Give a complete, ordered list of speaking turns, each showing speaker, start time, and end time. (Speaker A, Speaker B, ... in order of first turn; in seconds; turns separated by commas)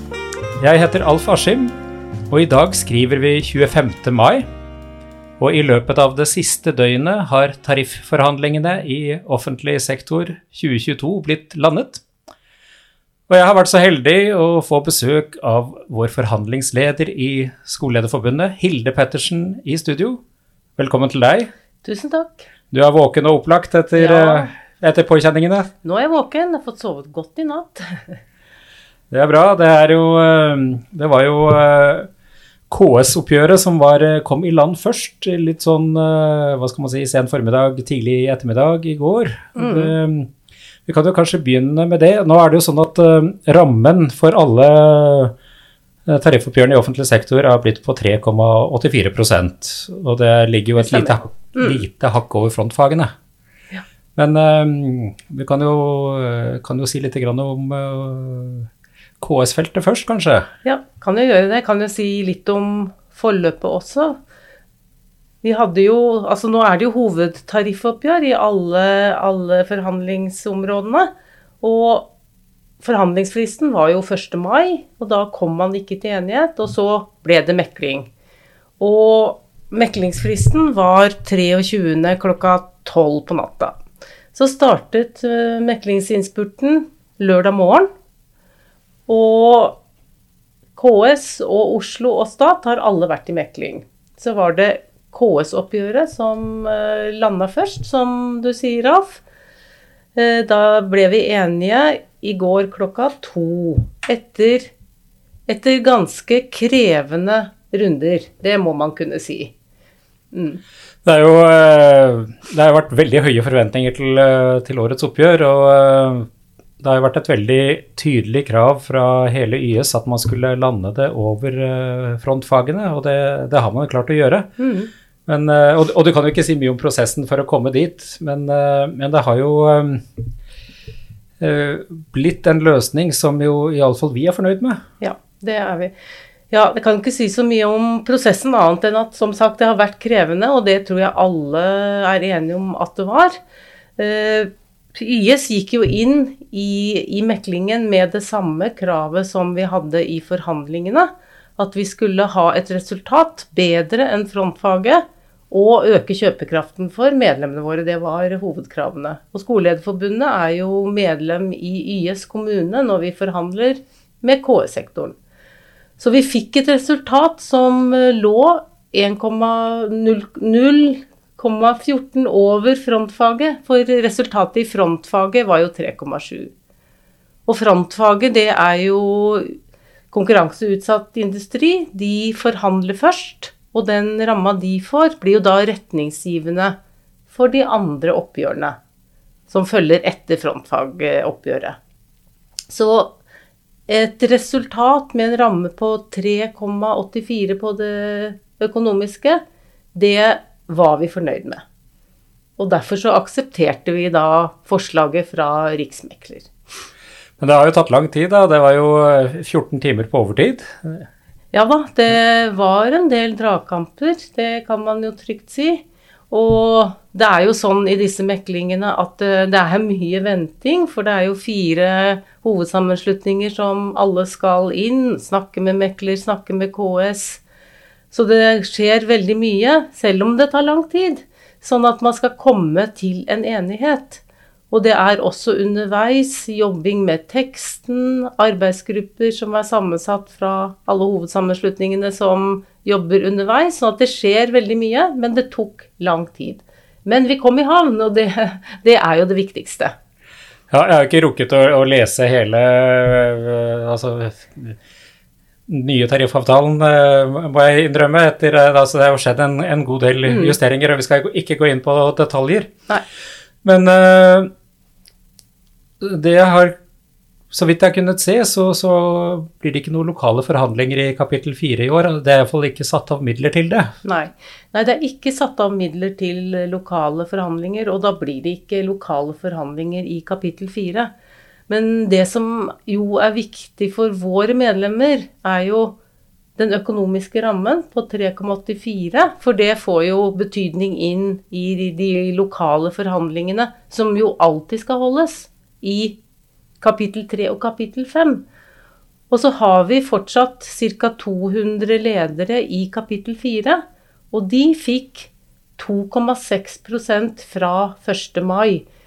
Speaker A: 0.6-1.7, Speaker A: 2.3-4.4, Speaker A: 5.4-12.0, Speaker A: 13.3-20.2, Speaker A: 20.8-21.5, Speaker B: 21.8-22.5, Speaker A: 22.7-25.7, Speaker B: 24.0-24.5, Speaker B: 25.8-28.2, Speaker A: 29.1-32.1, Speaker A: 32.7-40.3, Speaker B: 39.5-39.9, Speaker A: 40.9-45.3, Speaker A: 46.0-53.1, Speaker B: 50.8-51.8, Speaker A: 54.1-58.7, Speaker A: 59.2-60.5, Speaker B: 60.6-64.2, Speaker B: 65.4-71.1, Speaker B: 71.6-72.1, Speaker B: 72.8-78.1, Speaker B: 78.8-83.8, Speaker B: 84.3-87.9, Speaker B: 89.1-89.8, Speaker B: 90.8-99.2, Speaker B: 100.1-104.7, Speaker B: 105.5-109.5, Speaker B: 110.3-110.6, Speaker A: 111.0-116.3, Speaker A: 116.8-124.5, Speaker B: 124.6-124.9, Speaker A: 125.3-130.0, Speaker A: 131.4-134.8, Speaker B: 135.0-135.9, Speaker B: 136.5-143.4, Speaker B: 144.0-165.2, Speaker B: 166.0-176.5, Speaker B: 177.5-179.5, Speaker B: 180.1-186.7, Speaker B: 187.3-188.8, Speaker B: 189.5-191.8, Speaker B: 192.7-193.1, Speaker B: 193.9-199.4, Speaker B: 199.9-201.6, Speaker B: 202.6-206.5, Speaker A: 207.4-211.1, Speaker B: 211.5-227.4, Speaker B: 228.1-249.9, Speaker A: 250.7-254.8, Speaker A: 255.7-262.7, Speaker B: 260.3-260.5, Speaker A: 263.6-264.5, Speaker A: 266.0-266.7, Speaker A: 267.5-273.9, Speaker B: 274.0-281.1, Speaker B: 281.7-285.9, Speaker B: 286.6-296.2, Speaker B: 296.8-298.4, Speaker B: 299.3-308.8